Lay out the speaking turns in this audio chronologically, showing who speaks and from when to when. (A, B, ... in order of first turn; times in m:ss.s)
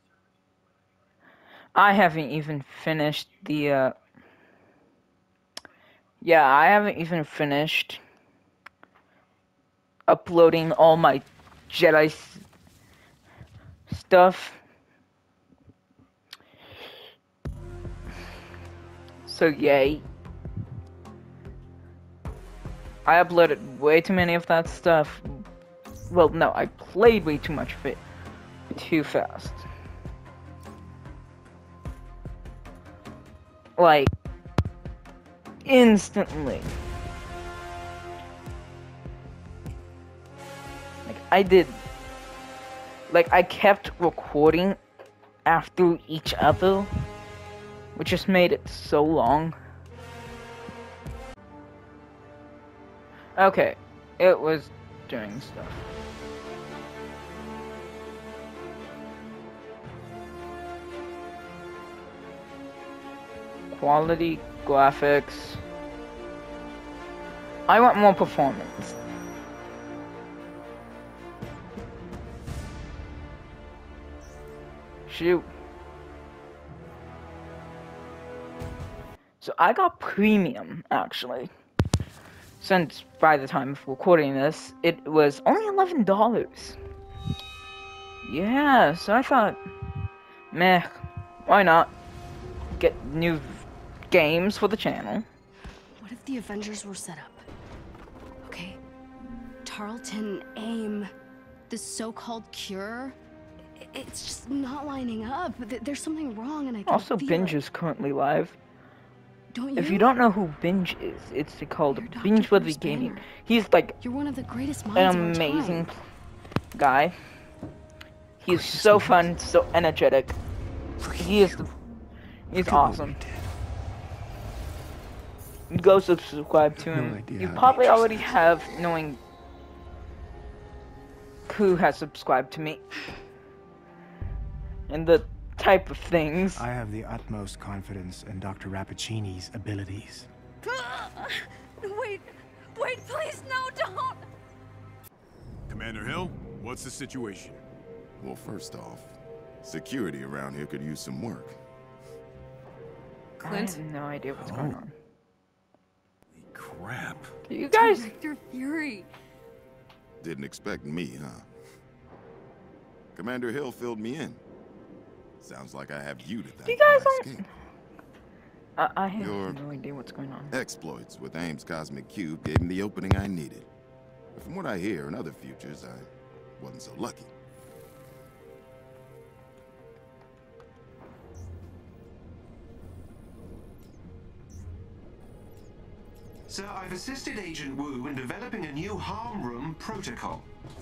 0:01.8-0:03.9 A
0:06.2-0:08.0 A
0:10.1-0:12.4 A
0:13.9-0:14.6 A
0:19.2-0:20.0 A
0:23.0-0:25.4 A
0:26.1-0:28.0 A
0:28.7-0:29.6 A
0:33.8-0:34.1 A
0:35.6-0:36.7 A
0:41.0-0:41.8 A
0:43.1-0:44.8 A
0:45.4-0:46.9 A
0:47.9-0:49.6 A
0:53.4-0:55.8 A
1:03.7-1:05.6 A
1:07.7-1:09.0 A
1:15.1-1:15.4 A
1:19.4-1:21.5 A
1:22.6-1:26.8 A
1:28.2-1:29.6 A
1:30.5-1:31.9 A
1:32.8-1:35.2 A
1:36.0-1:37.4 B
1:38.4-1:38.8 B
1:39.6-1:41.1 B
1:41.7-1:43.2 B
1:43.8-1:47.6 B
1:46.9-1:48.6 A
1:49.5-1:50.1 B
1:49.8-1:54.0 A
1:51.8-1:53.2 B
1:54.0-1:55.9 B
1:54.9-1:56.0 A
1:56.7-1:57.2 A
1:58.4-2:00.4 A
2:01.2-2:01.7 A
2:02.5-2:03.2 A
2:05.7-2:09.2 A
2:11.5-2:12.8 A
2:14.9-2:16.6 A
2:16.5-2:20.3 C
2:20.6-2:24.3 B
2:25.7-2:27.6 D
2:28.2-2:31.6 E
2:33.4-2:33.7 D
2:33.4-2:34.9 A
2:33.4-2:33.8 B
2:34.3-2:34.8 D
2:36.4-2:37.3 D
2:37.5-2:38.1 A
2:37.7-2:39.1 B
2:40.2-2:41.4 E
2:43.1-2:44.4 E
2:45.4-2:47.5 E
2:46.6-2:47.4 A
2:48.8-2:50.5 A
2:49.2-2:49.6 E
2:50.5-2:53.7 E
2:54.3-2:57.3 E
3:06.5-3:10.5 F